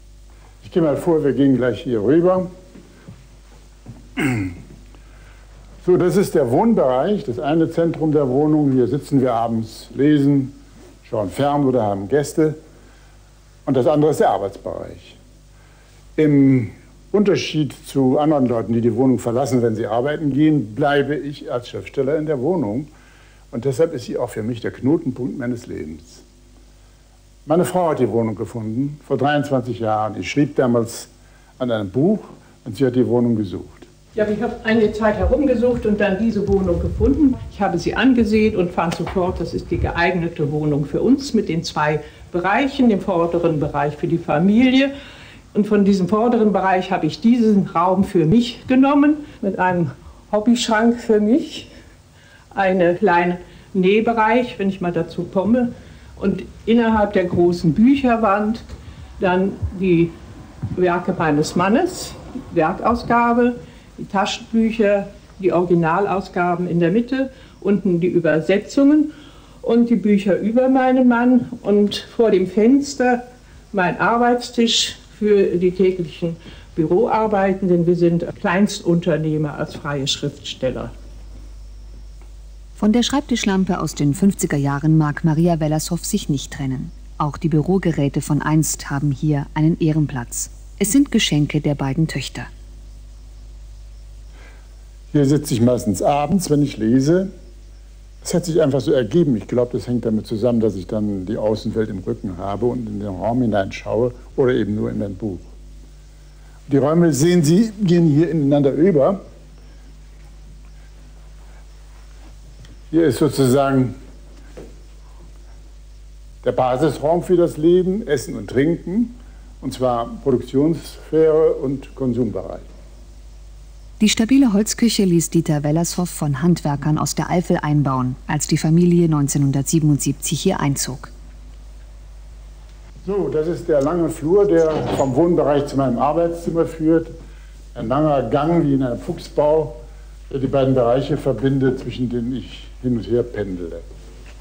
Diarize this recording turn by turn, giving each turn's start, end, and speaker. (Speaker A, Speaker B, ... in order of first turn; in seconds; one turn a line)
Speaker A: 0.6-2.5
Speaker A: 4.2-4.5
Speaker A: 5.8-12.6
Speaker A: 13.6-15.2
Speaker A: 16.1-22.9
Speaker A: 23.5-26.2
Speaker A: 27.4-33.9
Speaker B: 34.1-44.9
Speaker B: 45.5-51.7
Speaker B: 52.5-58.6
Speaker B: 59.2-60.1
Speaker B: 60.7-80.9
Speaker C: 82.8-92.5
Speaker A: 95.1-97.3
Speaker A: 98.2-105.5
Speaker A: 106.7-109.2
Speaker A: 112.9-113.9
Speaker A: 116.4-122.7
Speaker C: 124.0-131.1
Speaker A: 133.0-137.1
Speaker A: 137.7-143.8